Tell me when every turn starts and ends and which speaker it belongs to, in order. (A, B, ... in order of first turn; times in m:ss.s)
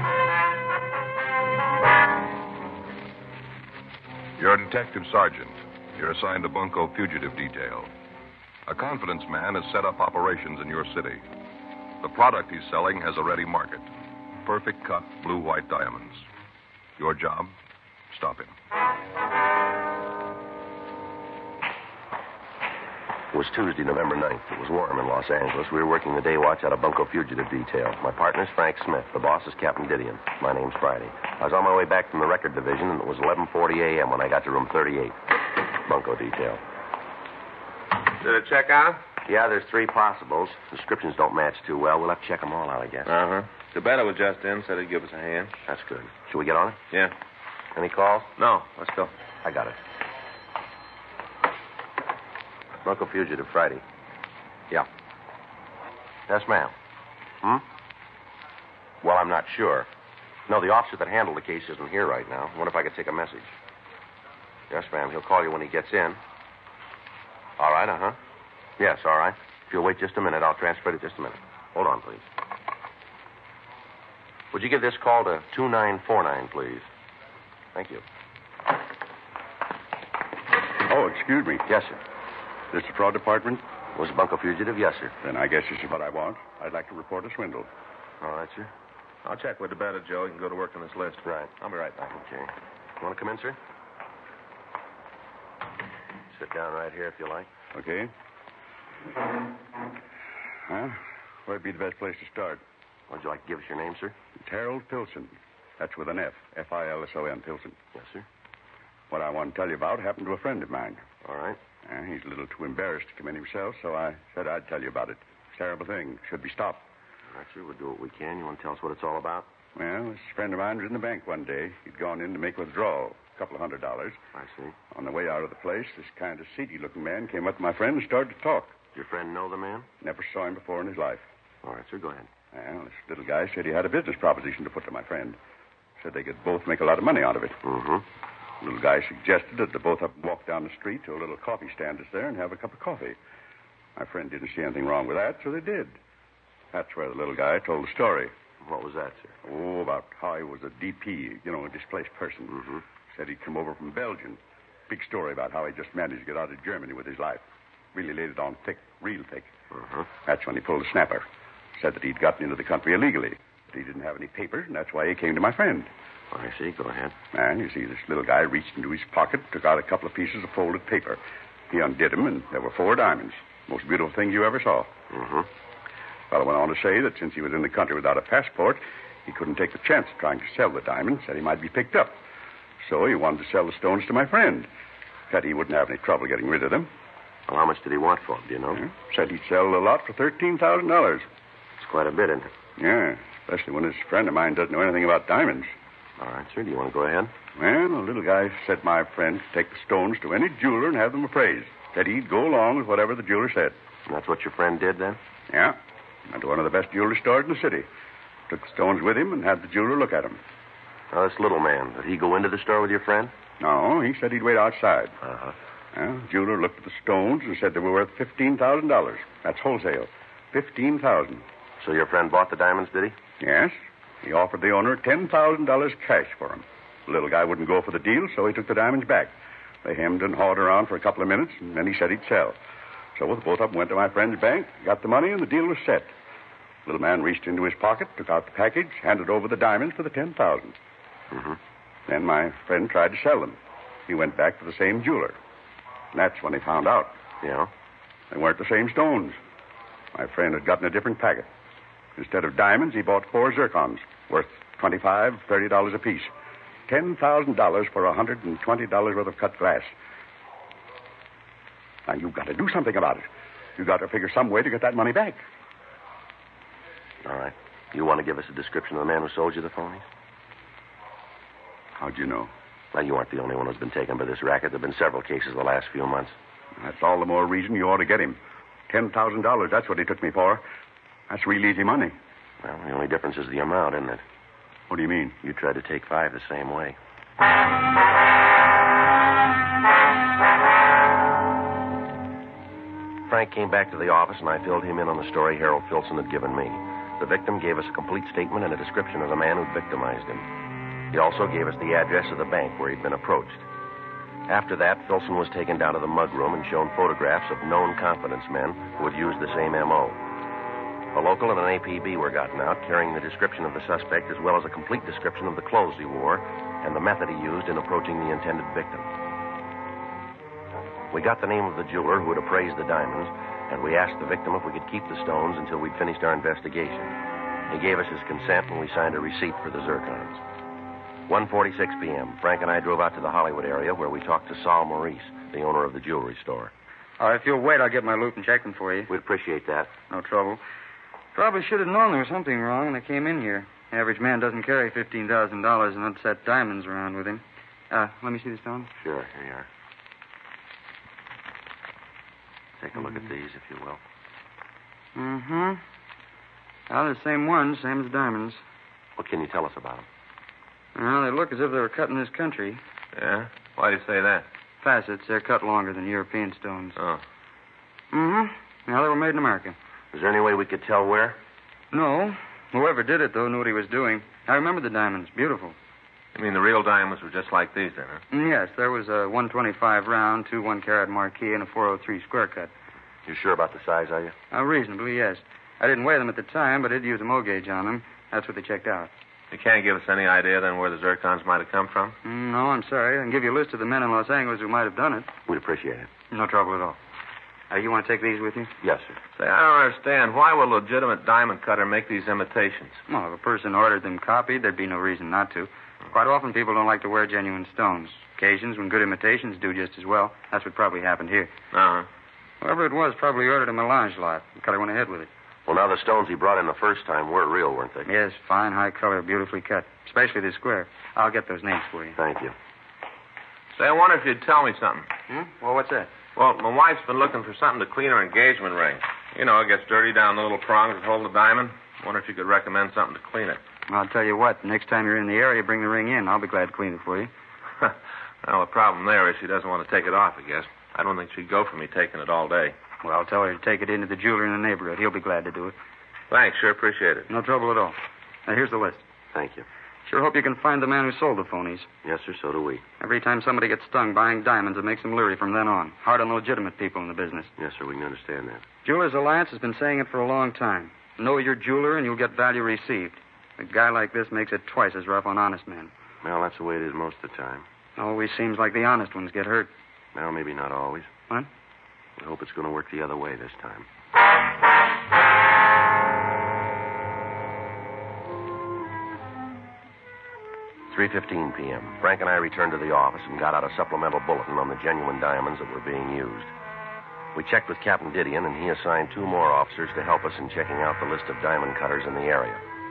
0:04.4-0:07.9 A
0:08.7-0:11.2 A
0:12.0-0:13.9 A
0:14.4-0:16.3 A
0:17.0-0:17.6 A
0:18.1-0:18.5 A
0:23.3-0:36.6 B
0:38.2-0:39.0 C
0:39.2-0:43.1 B
0:43.1-0:45.5 C
0:45.7-0:46.8 B
0:47.8-0:48.3 B
0:48.4-0:49.1 C
0:49.4-0:49.8 B
0:52.8-0:53.8 B
0:56.3-0:56.7 B
0:59.0-0:59.9 B
1:00.5-1:03.6 B
1:04.7-1:06.2 B
1:07.6-1:08.2 B
1:08.8-1:12.3 B
1:14.5-1:16.9 B
1:17.7-1:18.0 B
1:20.9-1:21.6 D
1:21.7-1:22.0 B
1:22.7-1:23.6 D
1:23.9-1:25.1 B
1:25.2-1:27.7 D
1:28.2-1:28.7 B
1:29.2-1:31.8 C
1:31.2-1:33.6 B
1:36.3-1:37.5 B
1:37.7-1:38.1 D
1:40.7-1:42.6 D
1:43.1-1:44.2 B
1:44.4-1:47.8 D
1:47.9-1:48.2 B
1:49.1-1:51.1 D
1:51.2-1:51.6 B
1:51.8-1:56.8 D
1:57.3-1:59.5 B
1:59.8-2:04.2 D
2:04.3-2:04.8 B
2:04.9-2:08.8 D
2:08.9-2:09.9 B
2:10.0-2:11.3 D
2:11.6-2:12.3 B
2:12.5-2:15.4 D
2:16.0-2:17.6 D
2:17.6-2:18.0 B
2:18.6-2:23.2 D
2:24.0-2:25.9 D
2:26.7-2:28.3 D
2:28.6-2:29.4 B
2:29.4-2:39.6 D
2:32.6-2:32.8 B
2:39.7-2:40.1 B
2:40.2-2:41.2 D
2:41.8-2:45.9 D
2:46.3-2:47.2 B
2:47.3-2:55.0 D
2:55.1-2:55.5 B
2:56.3-3:02.2 D
3:02.8-3:04.7 D
3:05.3-3:06.9 D
3:07.5-3:08.8 B
3:08.8-3:11.2 D
3:11.8-3:12.5 B
3:12.8-3:15.7 D
3:16.2-3:17.3 B
3:17.5-3:23.8 D
3:24.1-3:25.2 B
3:25.5-3:27.9 D
3:28.5-3:30.4 D
3:31.1-3:33.3 B
3:33.6-3:35.2 D
3:35.2-3:35.6 B
3:35.9-3:41.4 D
3:41.8-3:43.2 B
3:43.4-3:49.3 D
3:49.8-3:52.6 D
3:53.2-3:56.1 D
3:56.8-4:00.8 D
4:01.3-4:01.6 B
4:02.1-4:05.4 D
4:06.1-4:07.1 D
4:07.4-4:07.7 B
4:08.3-4:09.4 D
4:10.1-4:11.5 D
4:12.2-4:16.3 D
4:16.9-4:19.9 D
4:22.1-4:25.4 D
4:27.2-4:30.1 B
4:32.0-4:32.5 D
4:32.9-4:36.4 B
4:36.8-4:38.4 D
4:38.9-4:40.6 D
4:41.3-4:42.1 D
4:42.6-4:44.2 B
4:44.9-4:45.4 D
4:45.4-4:47.0 B
4:53.2-5:00.5 B
5:01.1-5:03.6 B
5:04.5-5:10.2 B
5:11.1-5:19.1 B
5:21.1-5:27.2 B
5:27.7-5:30.4 B
5:31.3-5:36.7 B
5:37.2-5:39.1 E
5:39.1-5:39.9 B
5:40.1-5:40.6 E
5:41.4-5:48.9 E
5:49.0-5:49.7 B
5:52.8-5:54.0 B
5:55.1-5:55.8 E
5:56.9-5:58.6 E
5:59.2-6:00.1 B
6:00.9-6:02.8 E
6:03.1-6:04.4 C
6:04.8-6:07.0 E
6:07.0-6:07.2 C
6:08.1-6:09.8 E
6:10.1-6:11.4 B
6:11.9-6:15.8 E
6:16.4-6:18.2 C
6:18.3-6:22.7 E
6:23.2-6:24.4 B
6:24.5-6:29.1 E
6:29.5-6:32.2 C
6:32.2-6:35.3 E
6:35.5-6:36.1 B
6:36.3-6:37.0 E
6:37.7-6:38.7 E
6:38.8-6:39.2 B
6:39.4-6:43.0 C
6:43.1-6:51.5 E
6:51.7-6:52.1 C
6:52.6-6:55.3 E
6:55.6-6:58.1 B
6:58.1-7:02.2 E
7:02.2-7:02.5 B
7:03.8-7:05.1 C
7:05.3-7:06.1 E
7:06.4-7:13.6 C
7:13.9-7:17.3 E
7:17.8-7:22.8 C
7:23.0-7:25.8 E
7:26.3-7:27.3 C
7:27.3-7:29.1 E
7:29.3-7:29.6 B
7:30.1-7:31.9 E
7:32.0-7:32.8 B
7:33.0-7:37.5 E
7:37.6-7:38.6 B
7:38.8-7:45.9 E
7:46.2-7:47.6 B
7:48.0-7:49.7 E
7:50.1-7:51.1 B
7:52.2-7:53.9 B
8:00.9-8:06.5 B
8:07.3-8:12.6 B